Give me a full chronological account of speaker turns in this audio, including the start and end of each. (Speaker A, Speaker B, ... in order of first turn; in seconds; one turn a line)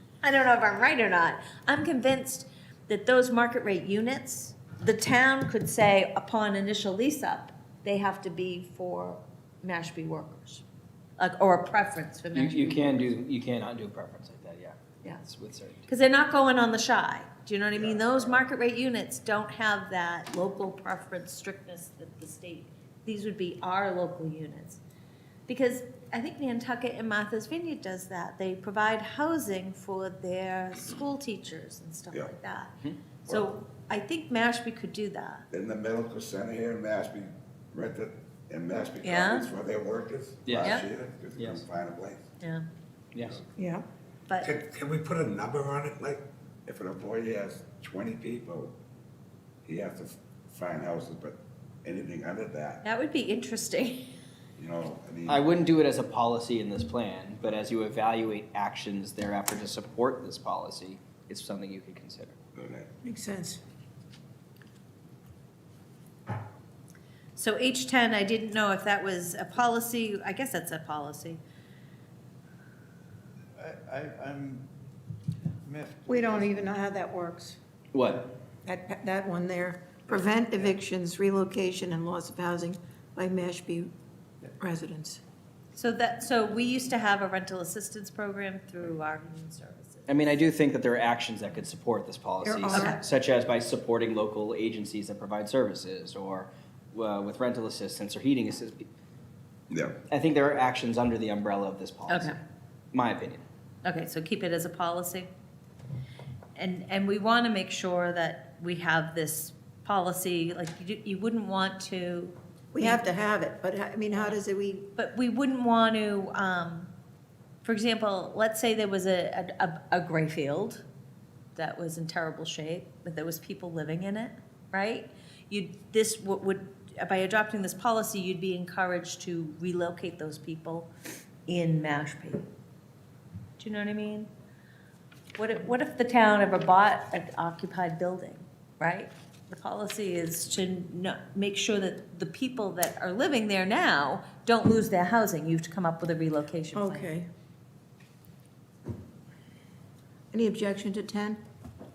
Speaker A: 0.2-10.6
Speaker A: 11.2-13.1
Speaker B: 12.3-15.9
Speaker A: 15.9-24.8
Speaker C: 17.8-18.4
Speaker A: 25.5-35.5
Speaker C: 35.5-42.2
Speaker A: 39.0-39.5
Speaker B: 40.5-40.8
Speaker B: 41.4-41.6
Speaker B: 43.1-43.4
Speaker C: 43.2-43.5
Speaker D: 43.6-43.9
Speaker C: 44.4-48.7
Speaker C: 49.6-52.8
Speaker A: 52.8-54.1
Speaker C: 54.6-55.4
Speaker B: 55.3-62.4
Speaker C: 62.6-62.9
Speaker D: 63.0-63.6
Speaker A: 67.4-71.4
Speaker E: 73.6-74.6
Speaker E: 75.6-76.7
Speaker D: 76.1-77.6
Speaker B: 77.9-78.3
Speaker D: 78.7-83.9
Speaker D: 84.6-85.2
Speaker A: 85.8-90.2
Speaker B: 90.1-98.9
Speaker D: 92.4-93.0
Speaker A: 92.7-93.0
Speaker C: 99.7-100.0
Speaker B: 100.1-102.4
Speaker A: 102.1-102.4
Speaker B: 102.9-103.4
Speaker A: 103.8-105.3
Speaker A: 106.6-113.0
Speaker D: 112.7-114.9
Speaker A: 115.0-116.9
Speaker A: 117.6-120.8
Speaker A: 121.6-130.9
Speaker A: 131.5-132.5
Speaker A: 133.6-134.3
Speaker A: 135.4-147.1
Speaker D: 146.7-147.3
Speaker D: 150.3-151.4